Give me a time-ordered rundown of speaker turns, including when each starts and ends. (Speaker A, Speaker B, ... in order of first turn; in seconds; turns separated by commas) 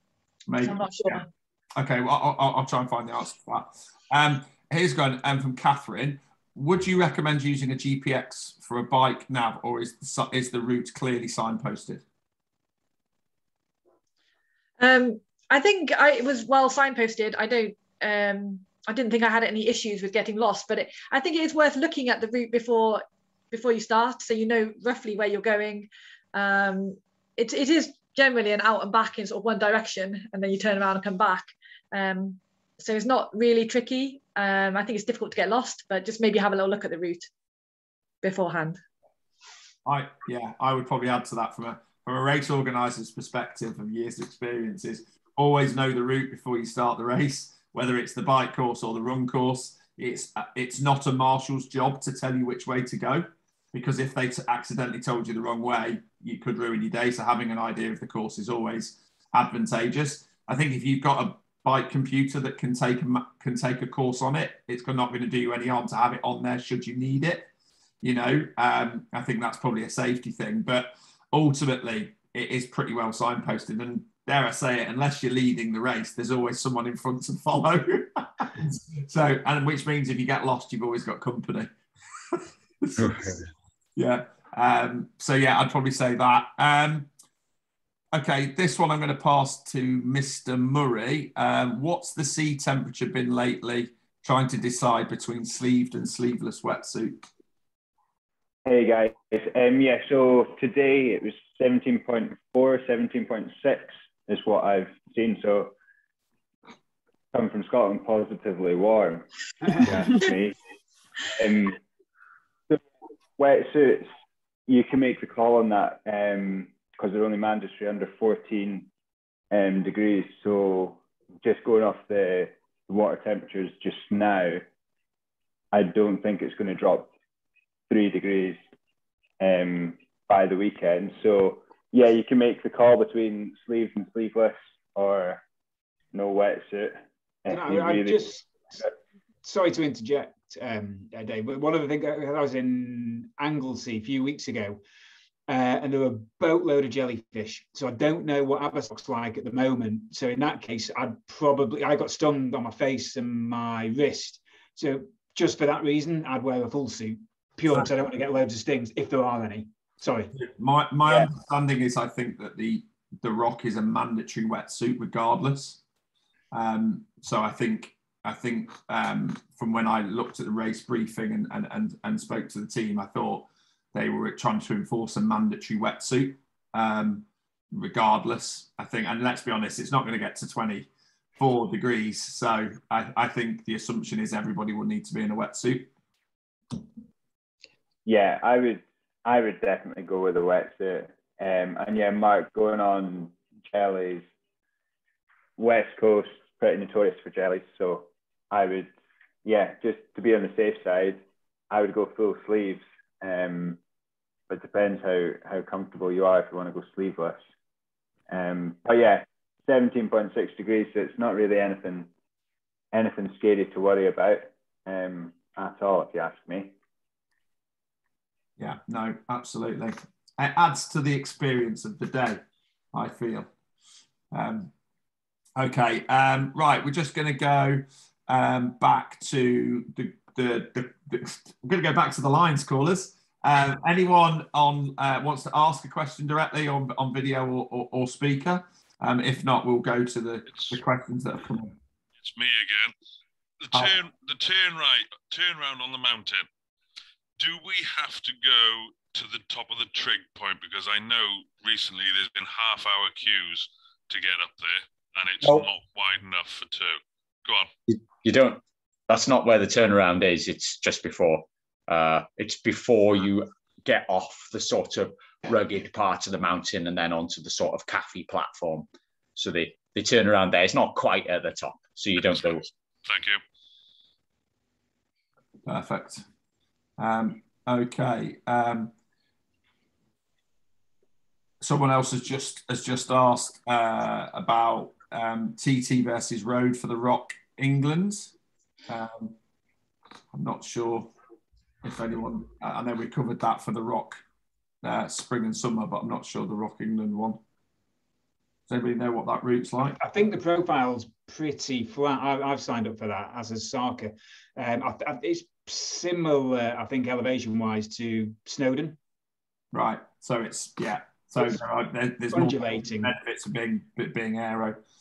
Speaker A: 0.5-1.2, Speaker B: 0.6-1.3, Speaker A: 1.8-12.0, Speaker B: 14.8-37.3, Speaker B: 38.2-38.8, Speaker A: 39.9-67.5, Speaker A: 68.0-81.7, Speaker A: 82.3-83.3, Speaker C: 83.0-83.4, Speaker A: 84.0-87.1, Speaker A: 88.1-97.2, Speaker D: 98.7-105.7, Speaker D: 107.3-110.6, Speaker D: 111.3-111.8, Speaker D: 113.4-114.1, Speaker D: 114.7-118.9, Speaker D: 119.5-124.6, Speaker D: 125.7-127.1, Speaker D: 127.9-128.6, Speaker D: 129.4-135.4, Speaker D: 136.1-138.9, Speaker E: 137.5-138.7, Speaker E: 139.4-144.8, Speaker E: 145.5-160.3, Speaker A: 160.3-165.8, Speaker A: 166.5-185.9, Speaker D: 188.0-194.3, Speaker D: 195.6-198.9, Speaker D: 199.4-203.8, Speaker D: 204.5-207.4, Speaker D: 208.3-212.1, Speaker D: 212.9-216.7, Speaker A: 218.6-222.4, Speaker A: 222.9-223.5, Speaker A: 224.3-224.7, Speaker A: 225.6-241.8, Speaker F: 240.5-240.8, Speaker F: 242.2-242.9, Speaker F: 243.6-246.4, Speaker F: 247.4-257.7, Speaker C: 257.9-272.6, Speaker F: 273.0-273.4, Speaker A: 275.6-276.2, Speaker A: 277.0-278.9, Speaker A: 281.6-288.3, Speaker A: 288.9-289.4, Speaker A: 290.3-291.1, Speaker A: 291.8-294.2, Speaker A: 294.8-297.4, Speaker A: 298.7-300.0, Speaker E: 300.0-309.0, Speaker A: 309.7-314.8, Speaker E: 312.3-313.1